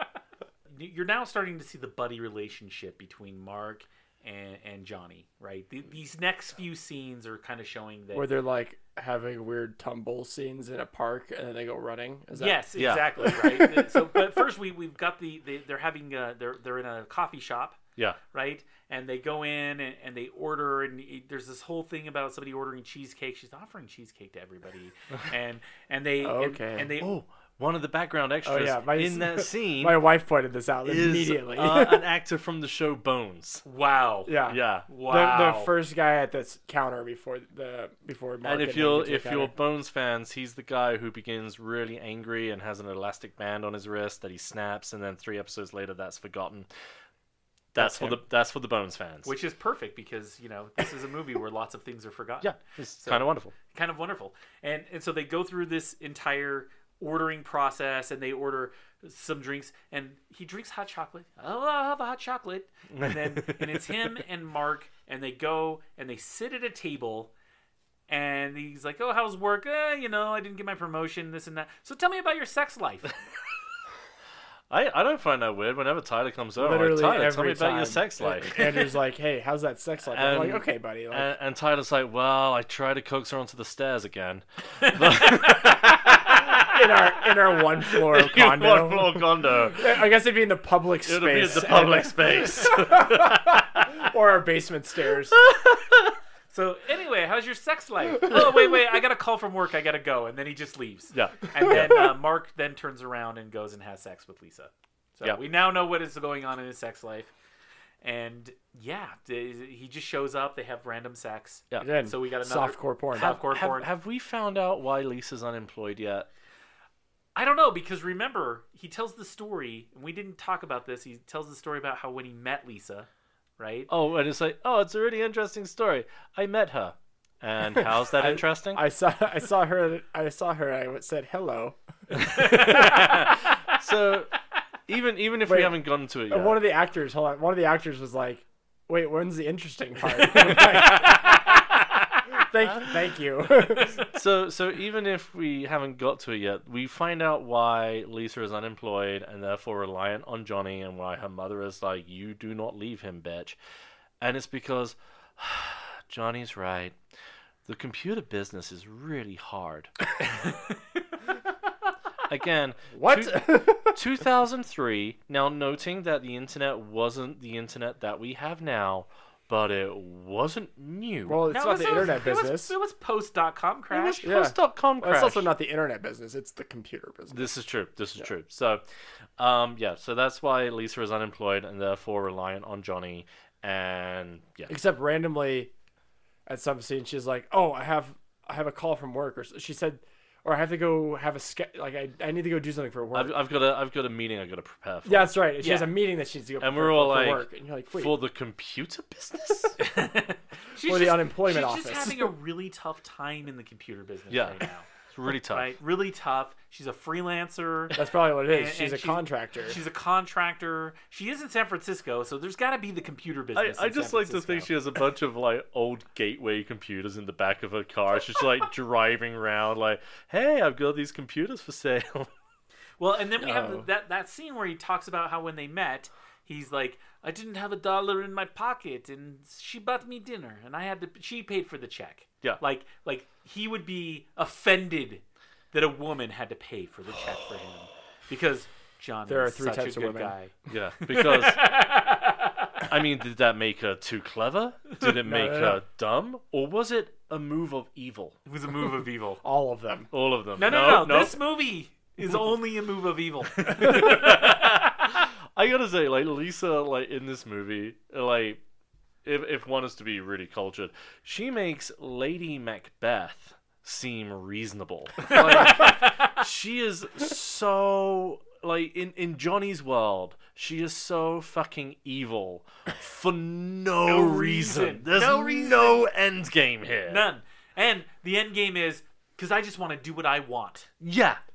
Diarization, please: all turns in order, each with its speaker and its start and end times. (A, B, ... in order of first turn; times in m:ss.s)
0:00.7-0:08.3 A
0:08.1-0:12.6 B
0:12.4-0:17.8 A
0:12.8-0:13.6 C
0:13.2-0:13.6 B
0:18.3-0:27.1 A
0:26.2-0:26.9 B
0:27.0-0:30.0 C
0:28.4-0:32.0 B
0:30.8-0:33.6 C
0:33.6-0:35.7 A
0:34.3-0:39.5 B
0:34.5-0:34.9 C
0:38.4-0:46.7 C
0:47.7-0:49.3 C
0:47.8-0:48.2 B
0:49.2-1:07.3 A
0:52.4-0:53.5 C
1:02.9-1:03.9 C
1:08.1-1:13.1 A
1:14.7-1:18.9 C
1:16.6-1:21.3 B
1:20.1-1:27.0 C
1:24.8-1:25.6 A
1:26.6-1:35.4 B
1:27.8-1:30.0 C
1:31.0-1:34.1 C
1:35.4-1:36.1 C
1:36.5-1:47.3 A
1:41.1-1:42.1 C
1:48.0-1:53.9 A
1:51.8-1:53.4 B
1:53.1-1:56.2 C
1:57.3-2:03.9 A
2:03.9-2:08.8 C
2:08.2-2:11.8 B
2:12.1-2:14.3 C
2:12.3-2:13.3 A
2:14.9-2:16.6 C
2:15.4-2:21.5 B
2:20.4-2:21.4 A
2:22.4-2:24.0 B
2:22.7-2:33.6 C
2:34.2-2:37.0 C
2:37.6-2:39.9 C
2:42.3-2:51.4 C
2:42.9-2:44.0 B
2:51.3-2:52.7 B
2:51.5-2:54.3 A
2:53.9-2:55.5 C
2:54.2-2:57.5 B
2:57.3-2:58.8 C
2:59.4-3:04.7 C
3:04.7-3:05.7 B
3:06.5-3:13.4 B
3:13.1-3:15.4 C
3:15.0-3:18.2 B
3:15.6-3:15.9 A
3:16.6-3:19.8 C
3:19.8-3:24.9 A
3:20.8-3:22.3 B
3:24.3-3:25.7 C
3:25.4-3:28.0 A
3:27.9-3:29.8 B
3:28.5-3:34.7 A
3:33.5-3:42.3 C
3:43.0-4:02.7 A
3:43.5-3:43.8 B
3:59.3-4:00.3 B
4:00.7-4:01.6 C
4:02.9-4:08.4 C
4:05.2-4:05.8 B
4:08.4-4:09.4 A
4:09.4-4:10.1 B
4:10.1-4:11.4 C
4:10.6-4:14.8 A
4:13.6-4:18.6 C
4:19.2-4:37.2 C
4:25.2-4:26.3 A
4:34.0-4:36.0 A
4:37.1-4:40.9 A
4:41.0-4:41.4 C